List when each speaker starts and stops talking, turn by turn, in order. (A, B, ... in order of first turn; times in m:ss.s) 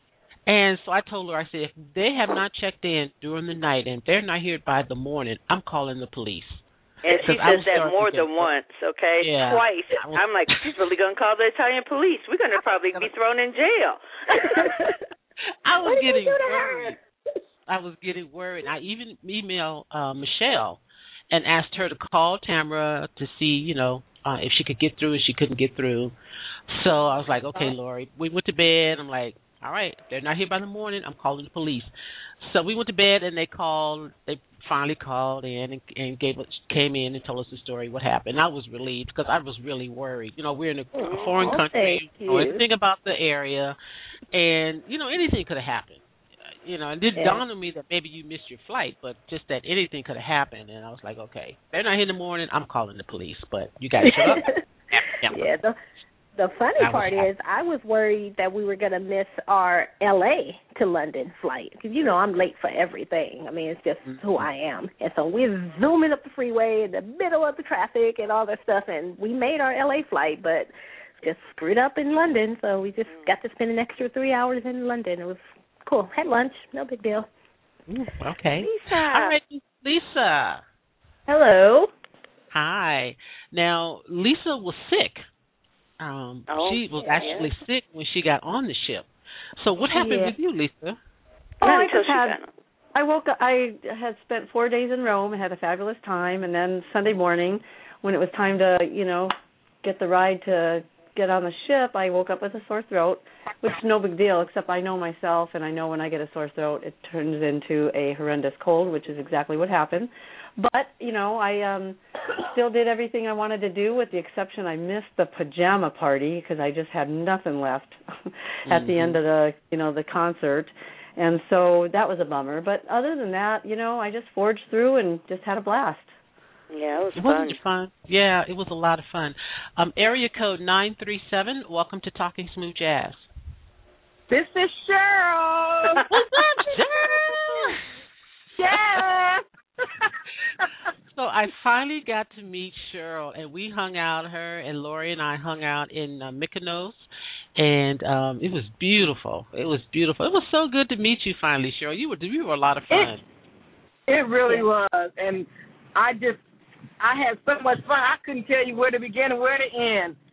0:00.4-0:06.6 A
0:07.0-0:14.7 B
0:07.2-0:08.5 A
0:09.2-0:10.6 A
0:14.3-0:15.0 C
0:15.6-0:17.0 A
0:15.8-0:17.0 C
0:17.7-0:20.8 A
0:21.3-0:26.1 A
0:26.7-0:31.9 A
0:32.4-0:43.8 A
0:41.0-0:42.6 C
0:41.0-0:41.4 B
0:44.3-0:46.0 A
0:46.6-0:55.4 A
0:47.1-0:47.4 C
0:54.0-0:54.6 C
0:55.3-0:55.8 C
0:56.4-1:17.3 C
0:56.8-0:57.3 A
1:04.0-1:04.4 A
1:17.9-1:20.6 A
1:18.6-1:19.4 B
1:21.3-1:21.9 C
1:22.5-1:25.2 A
1:26.0-1:31.0 A
1:26.5-1:27.5 B
1:27.0-1:27.5 C
1:29.9-1:30.3 C
1:31.6-1:32.5 B
1:31.6-1:32.4 D
1:32.9-1:52.0 D
1:52.5-1:58.0 D
1:58.6-2:06.1 D
1:58.7-1:59.2 A
2:06.7-2:07.6 B
2:07.2-2:13.3 A
2:14.3-2:16.0 E
2:16.1-2:17.8 A
2:18.5-2:20.1 E
2:18.7-2:19.0 A
2:21.1-2:27.0 A
2:27.6-2:33.2 A
2:34.1-2:36.4 E
2:37.0-2:40.2 E